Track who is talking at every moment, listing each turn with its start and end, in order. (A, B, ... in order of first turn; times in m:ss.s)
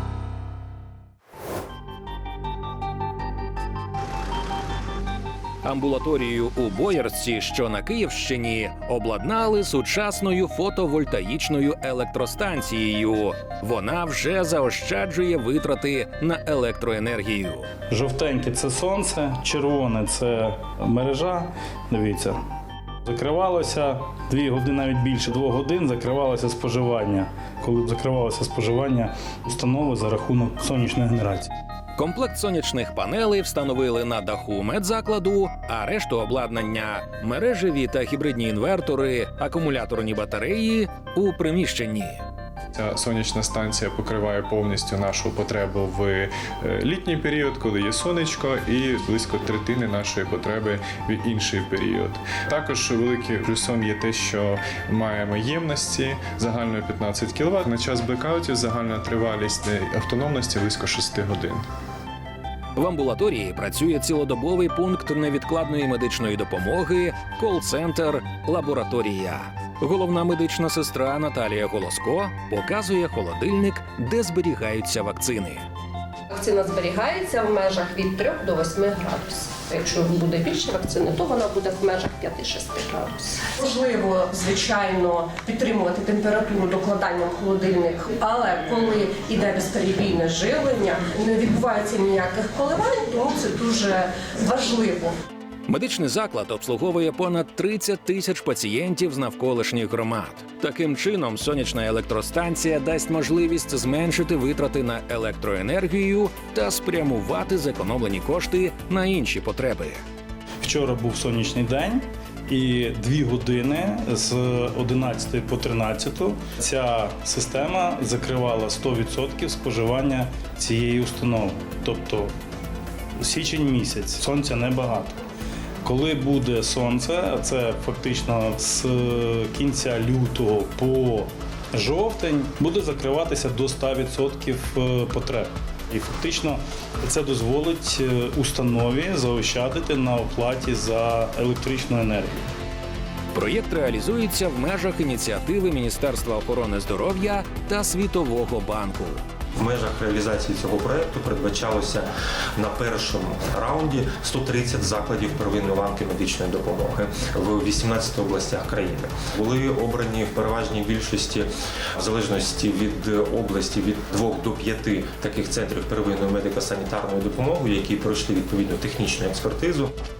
0:05.6-0:17.7 A
0:17.9-0:22.4 B
0:23.0-0:31.5 B
0:32.0-0:42.2 A
0:42.8-1:01.6 C
1:02.8-1:15.7 A
1:16.3-1:35.2 D
1:35.7-1:50.0 A
1:50.6-2:02.3 B
2:03.2-2:05.2 B
2:05.8-2:22.4 B
2:23.3-2:29.2 A
2:29.6-2:49.9 E